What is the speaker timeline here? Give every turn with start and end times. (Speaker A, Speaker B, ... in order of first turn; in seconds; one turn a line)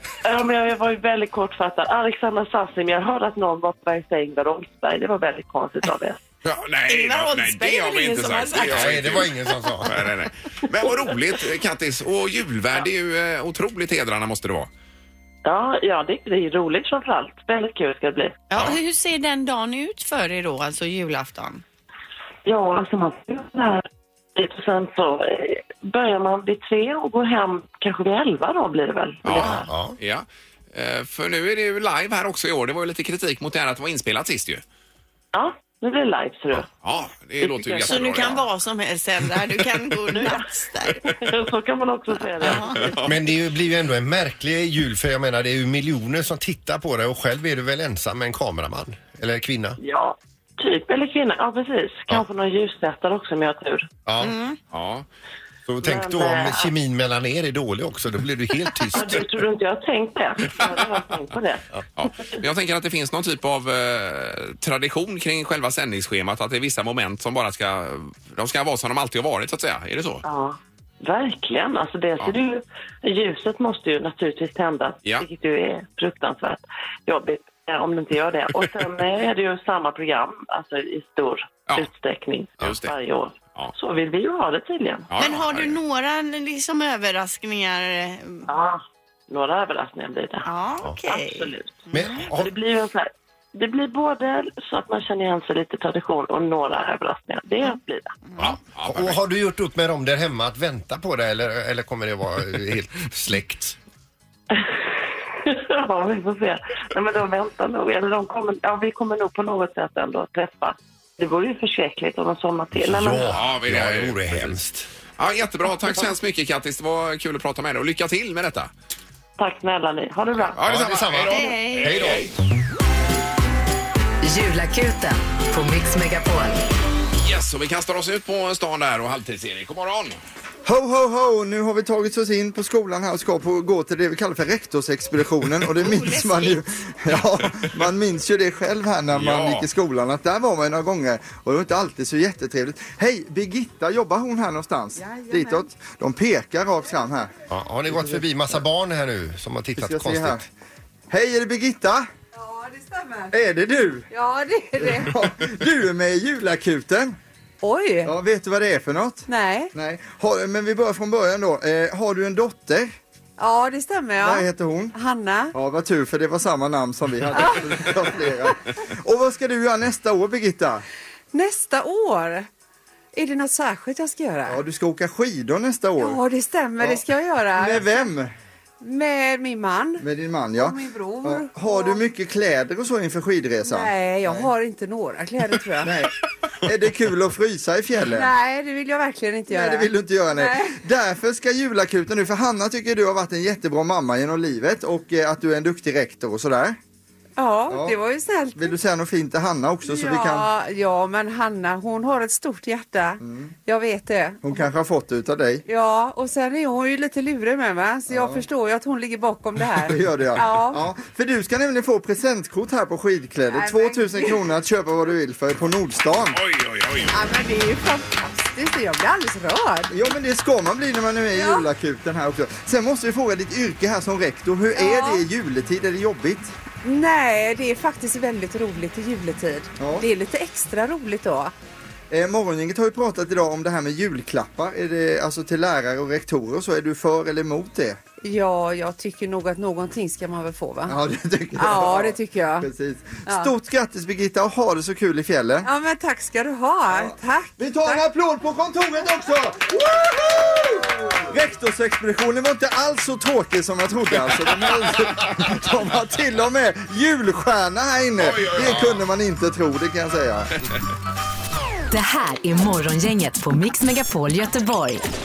Speaker A: 0.2-6.2
Speaker B: 6.4-9.3
Speaker C: 6.9-9.3
Speaker D: 8.6-9.9
Speaker B: 9.8-14.7
Speaker A: 15.4-18.4
Speaker C: 18.5-21.6
Speaker A: 22.4-29.6
Speaker B: 29.2-34.6
Speaker D: 29.3-30.0
Speaker A: 35.3-36.7
Speaker B: 36.8-38.4
Speaker A: 37.4-38.3
Speaker C: 37.8-41.1
Speaker A: 40.1-40.5
Speaker A: 41.0-43.0
Speaker C: 42.4-42.9
Speaker B: 42.9-43.1
Speaker D: 43.0-49.8
Speaker A: 49.8-53.9
Speaker D: 54.0-54.3
Speaker C: 54.2-54.6
Speaker B: 54.7-55.0
Speaker D: 55.7-59.3
Speaker A: 55.8-56.7
Speaker A: 58.9-61.6
Speaker B: 62.0-70.2
Speaker A: 70.2-85.1
Speaker B: 82.6-82.9
Speaker B: 85.1-85.8
Speaker C: 85.2-88.5
Speaker A: 88.5-90.5
Speaker C: 90.4-92.3
Speaker A: 91.0-98.2
Speaker D: 91.9-92.5
Speaker B: 98.4-99.2
Speaker D: 98.4-103.8
Speaker A: 105.4-113.3
Speaker D: 112.8-114.9
Speaker B: 113.3-114.5
Speaker B: 115.2-118.7
Speaker A: 119.4-120.6
Speaker B: 120.5-122.3
Speaker D: 120.6-122.3
Speaker C: 121.3-122.0
Speaker E: 124.2-126.6
Speaker B: 127.2-130.2
Speaker F: 130.6-147.3
Speaker C: 135.8-136.6
Speaker B: 139.1-139.7
Speaker G: 145.0-145.7
Speaker D: 147.5-150.4
Speaker F: 147.9-148.2
Speaker F: 149.8-150.4
Speaker F: 151.1-152.1
Speaker G: 152.3-153.3
Speaker F: 153.3-154.1
Speaker G: 154.1-155.2
Speaker F: 154.8-157.2
Speaker G: 157.6-158.1
Speaker F: 158.1-162.9
Speaker G: 159.3-159.7
Speaker G: 163.4-165.5
Speaker F: 164.2-164.9
Speaker F: 165.5-170.8
Speaker G: 167.3-167.9
Speaker G: 171.3-172.5
Speaker G: 173.1-174.6
Speaker F: 174.5-176.2
Speaker G: 176.0-178.1
Speaker F: 177.6-178.3
Speaker G: 178.8-182.0
Speaker F: 180.0-184.5
Speaker G: 183.6-186.0
Speaker F: 185.8-188.3
Speaker G: 188.1-190.8
Speaker F: 189.5-196.8
Speaker G: 197.4-198.7
Speaker F: 197.7-198.0
Speaker F: 198.5-200.5
Speaker G: 199.8-204.6
Speaker F: 203.2-203.5
Speaker F: 204.4-205.6
Speaker G: 205.7-210.8
Speaker F: 208.1-208.4
Speaker F: 209.8-216.4
Speaker G: 213.5-214.4
Speaker B: 216.3-217.2
Speaker G: 217.1-219.9
Speaker F: 219.9-226.5
Speaker G: 221.3-221.7
Speaker G: 224.7-225.2
Speaker G: 226.8-231.5
Speaker F: 229.8-230.1
Speaker F: 232.1-238.0
Speaker G: 238.2-241.0
Speaker F: 240.9-245.7
Speaker G: 241.6-242.7
Speaker G: 243.3-243.5
Speaker G: 245.6-248.0
Speaker F: 246.9-260.5
Speaker B: 258.2-259.0
Speaker E: 261.9-265.0